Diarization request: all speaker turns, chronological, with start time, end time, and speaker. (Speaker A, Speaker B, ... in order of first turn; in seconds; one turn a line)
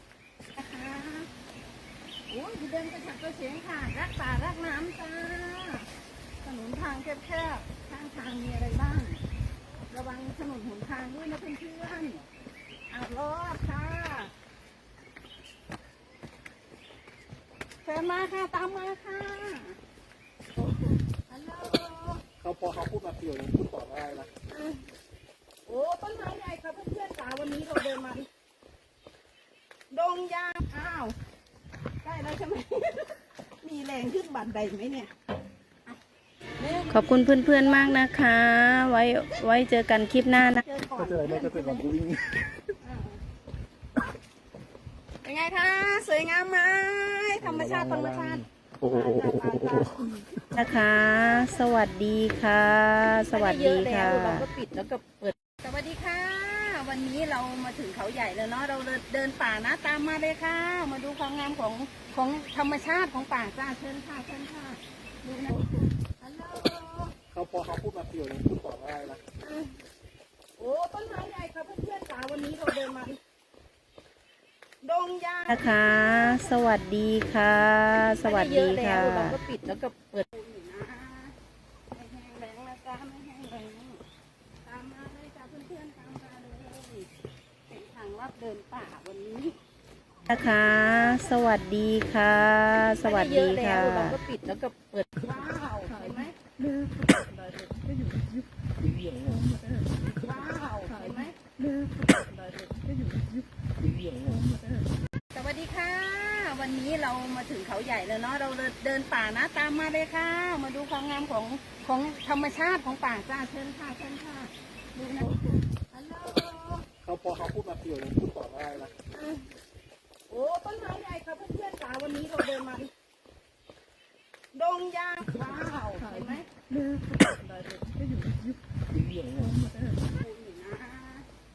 Speaker A: 0.5-1.3
Speaker A: 2.3-5.9
Speaker A: 6.4-9.2
Speaker A: 9.9-12.3
Speaker A: 12.9-14.3
Speaker A: 17.8-19.8
Speaker A: 21.3-22.2
Speaker B: 22.4-24.3
Speaker A: 25.6-28.3
Speaker A: 29.9-31.1
Speaker A: 32.0-33.1
Speaker A: 33.6-35.1
Speaker C: 36.9-40.6
Speaker A: 40.5-42.0
Speaker A: 42.8-43.2
Speaker A: 45.2-50.0
Speaker C: 50.5-54.5
Speaker A: 53.3-65.6
Speaker A: 66.2-67.1
Speaker B: 67.3-69.2
Speaker A: 70.6-73.2
Speaker A: 74.8-76.5
Speaker C: 75.5-79.4
Speaker A: 78.3-81.3
Speaker A: 81.9-84.0
Speaker A: 84.6-87.1
Speaker A: 87.7-89.5
Speaker C: 90.3-94.2
Speaker A: 93.5-93.8
Speaker A: 95.1-96.4
Speaker A: 100.1-101.3
Speaker A: 105.3-116.9
Speaker B: 117.0-118.9
Speaker A: 120.3-122.9
Speaker A: 124.5-126.5
Speaker A: 130.1-131.3